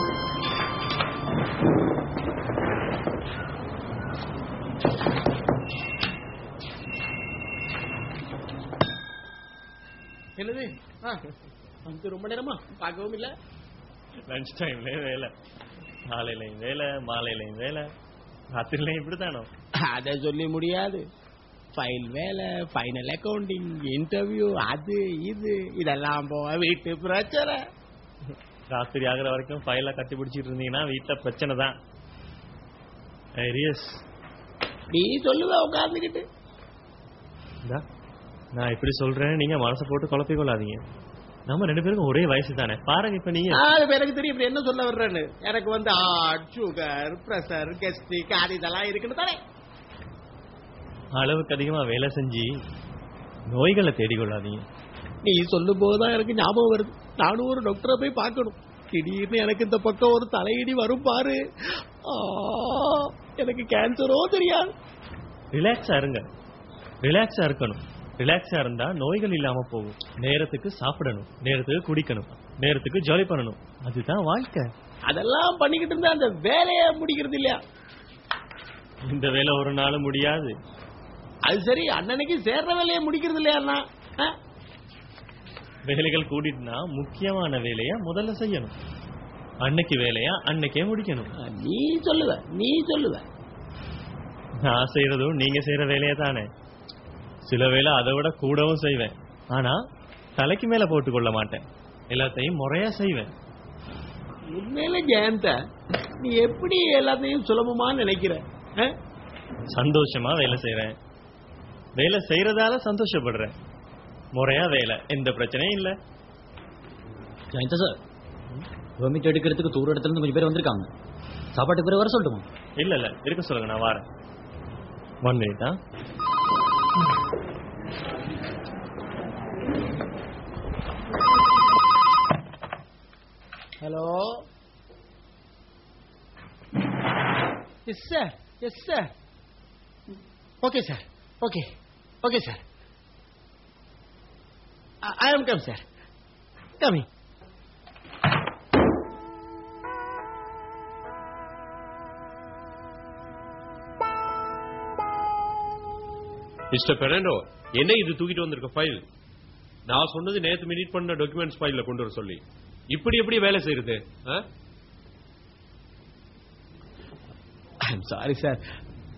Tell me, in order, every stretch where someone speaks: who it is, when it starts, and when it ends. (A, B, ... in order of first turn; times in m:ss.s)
0:10.4-0:11.3 A
0:11.8-0:13.3 A
0:14.3-0:15.3 B
0:16.1-0:17.9 B
0:18.5-0:19.5 B
0:19.8-0:21.0 A
0:21.7-0:27.6 A
0:28.7-0:31.7 B
0:33.4-0:33.9 B
0:34.9-0:36.2 A
0:38.6-0:40.8 B
0:41.5-0:43.6 B
0:43.5-0:49.4 A
0:51.2-0:52.5 B
0:53.5-0:54.6 B
0:55.2-1:01.4 A
1:02.1-1:04.7 A
1:05.5-1:06.2 B
1:07.0-1:14.7 B
1:15.1-1:17.6 A
1:19.1-1:20.5 B
1:21.5-1:24.3 A
1:25.9-1:28.7 B
1:29.6-1:31.3 B
1:31.4-1:33.2 A
1:34.6-1:36.5 B
1:37.4-1:39.8 B
1:40.4-1:43.3 B
1:44.5-1:45.5 A
1:46.2-1:48.9 A
1:49.7-1:50.9 B
1:52.0-1:53.5 B
1:54.3-1:56.0 B
1:57.5-1:57.9 C
1:59.0-2:00.9 C
2:01.6-2:02.4 C
2:02.8-2:04.0 B
2:05.2-2:05.8 B
2:13.8-2:14.4 A
2:17.8-2:19.1 A
2:20.6-2:22.6 A
2:25.0-2:25.8 A
2:26.8-2:27.1 A
2:36.7-2:39.0 D
2:39.9-2:44.5 D
2:47.8-2:48.6 A